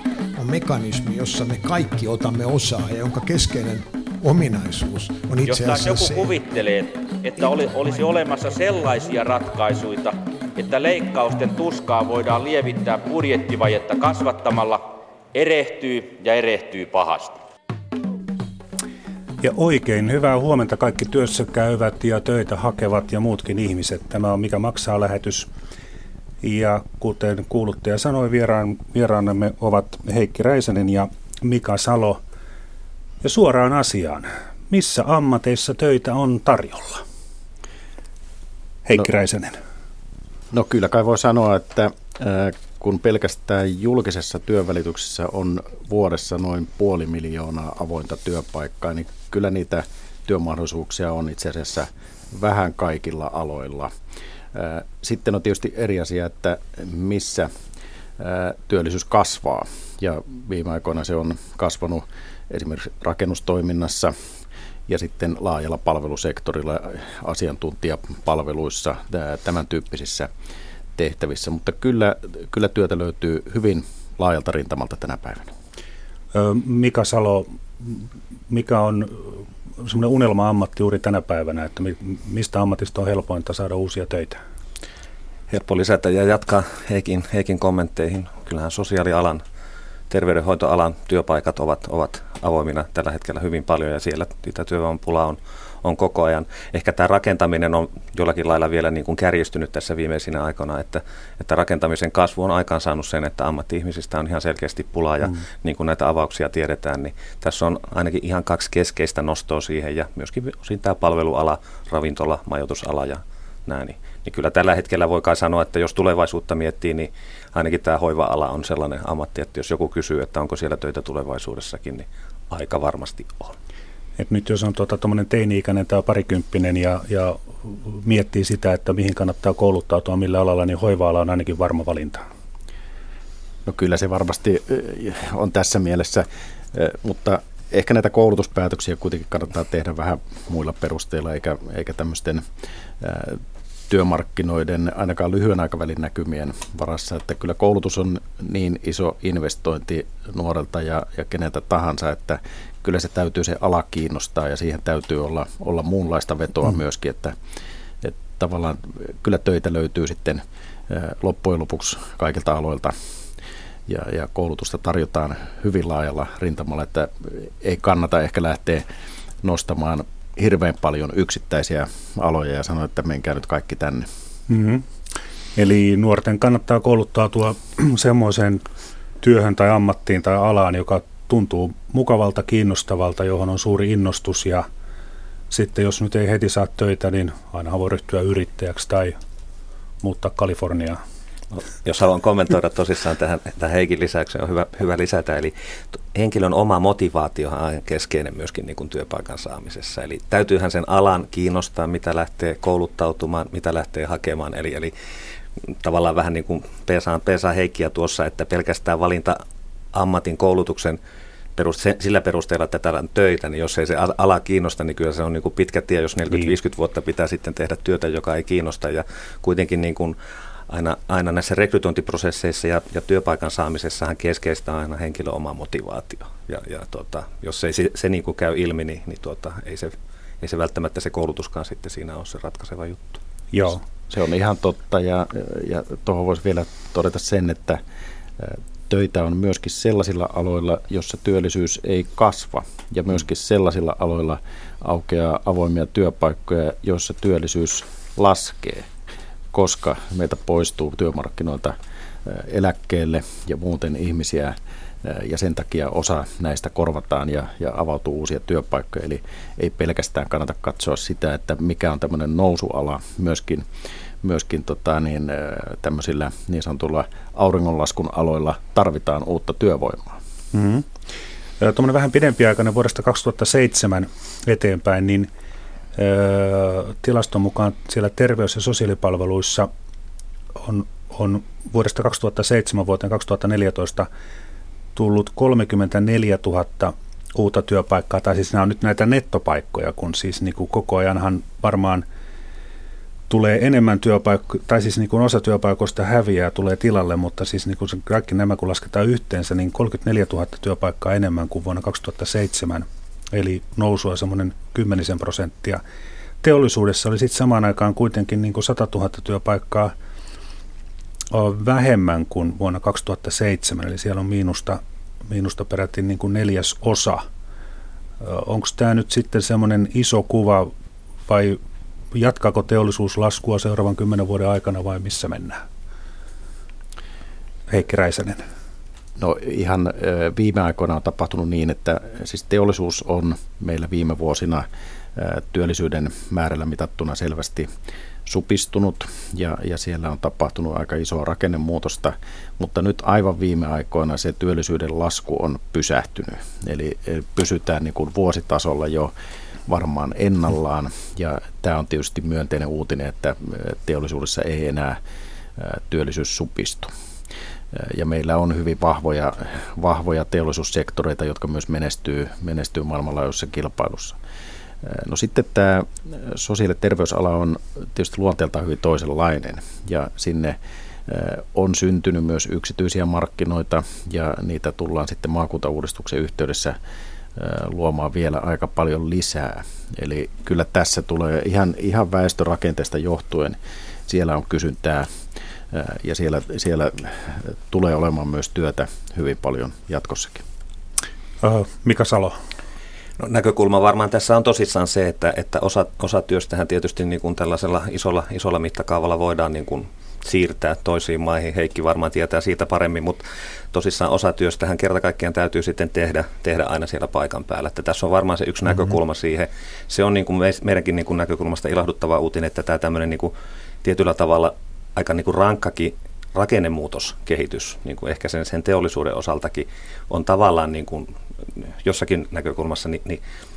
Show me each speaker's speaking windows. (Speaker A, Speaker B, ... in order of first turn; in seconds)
Speaker A: 0.3-6.4
Speaker B: 5.5-17.4
Speaker C: 19.4-25.5, 26.4-32.2, 33.2-37.0, 38.9-39.6, 76.3-84.4, 124.2-132.2, 174.5-174.8, 175.6-178.6, 179.2-184.7, 185.5-189.1, 190.0-191.0, 233.5-233.8, 270.5-270.9, 271.6-275.3, 275.9-279.7, 280.6-284.1, 284.9-292.0, 293.3-305.8, 306.4-309.9, 311.3-317.2, 318.2-320.7, 321.3-321.6, 322.1-325.6, 327.7-328.4, 391.4-392.3
Speaker D: 40.5-53.9, 54.5-57.5, 58.2-64.1, 64.9-70.3, 71.0-75.5, 133.7-142.4, 143.0-157.3, 158.0-162.9, 163.9-168.8, 169.4-174.1, 234.1-237.8, 238.4-248.9, 249.5-263.6, 264.2-270.2, 329.2-337.7, 338.2-349.1, 349.7-355.0, 355.6-356.9, 357.7-364.2, 364.8-376.8, 377.4-385.1, 385.7-390.4
Speaker E: 85.5-89.4, 90.1-123.5, 191.5-204.9, 205.7-209.4, 209.9-211.0, 211.6-220.2, 220.7-233.2, 393.2-403.2, 403.7-413.3, 413.8-423.2